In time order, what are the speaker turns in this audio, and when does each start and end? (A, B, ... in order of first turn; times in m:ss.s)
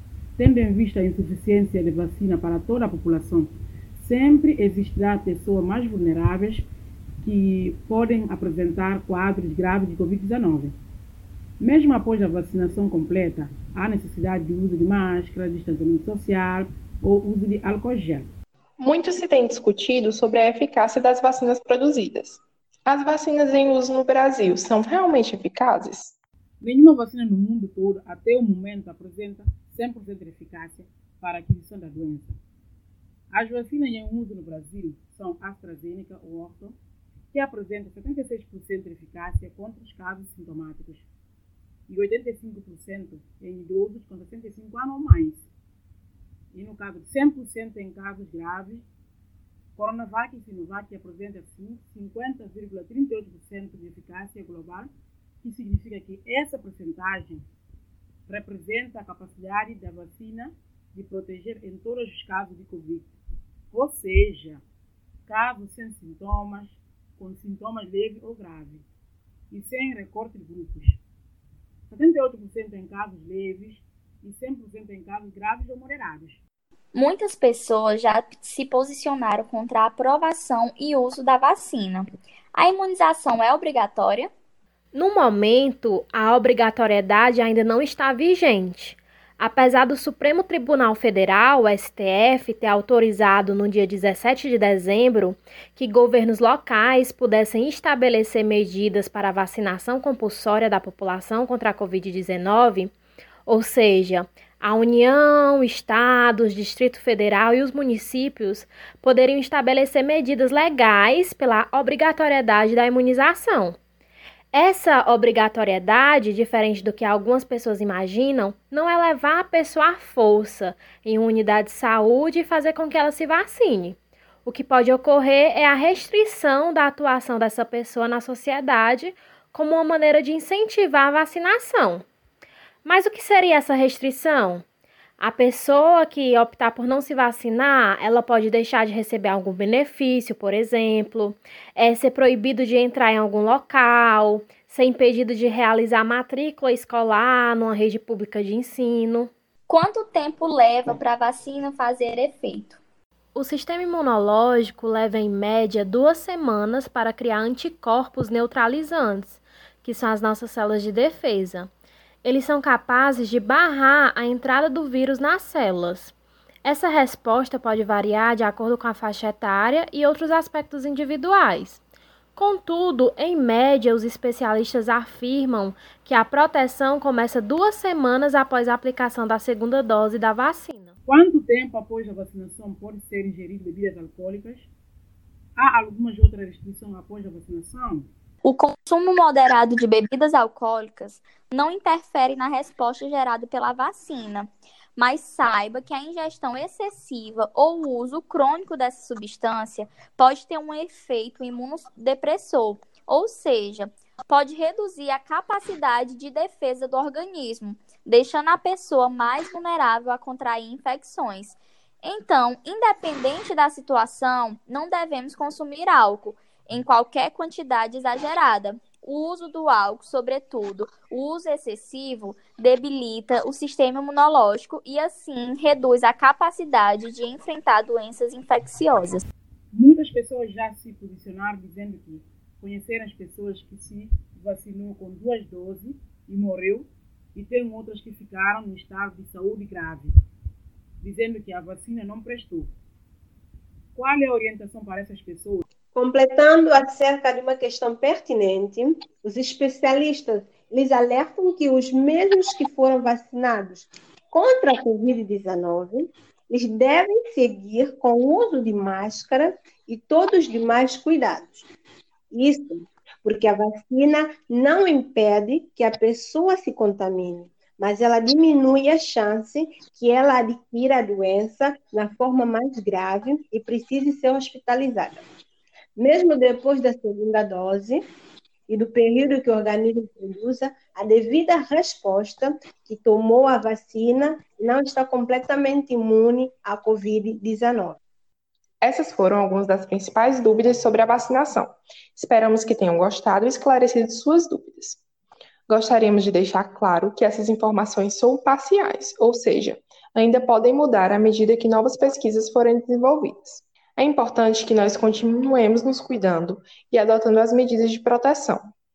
0:00.4-0:06.7 A
0:07.2-0:10.7 A
0:11.6-0:18.3 A
0:18.8-0:26.1 B
0:26.6-0:32.3 A
0:33.3-0:36.7 A
0:37.3-0:41.1 A
0:41.9-0:45.5 A
0:46.5-0:48.8 A
0:49.8-0:54.9 A
0:55.4-0:57.4 A
0:58.3-1:03.1 A
1:03.7-1:04.6 A
1:05.3-1:08.8 A
1:09.5-1:11.0 A
1:11.9-1:16.4 A
1:16.9-1:24.3 C
1:24.9-1:42.9 D
1:43.4-1:53.8 D
1:54.5-2:12.0 D
2:12.8-2:14.6 D
2:15.2-2:29.3 D
2:29.7-2:32.8 C
2:33.3-2:41.7 D
2:42.2-2:46.1 D
2:46.6-2:51.8 D
2:52.4-3:00.9 D
3:01.0-3:04.7 A
3:05.6-3:08.1 A
3:08.4-3:49.2 C
3:49.7-4:00.1 A
4:01.0-4:02.7 A
4:03.9-4:05.6 A
4:05.9-4:21.7 E
4:22.3-4:35.2 E
4:36.0-4:38.0 E
4:38.7-4:48.0 E
4:48.8-4:55.0 B
4:55.7-5:08.6 B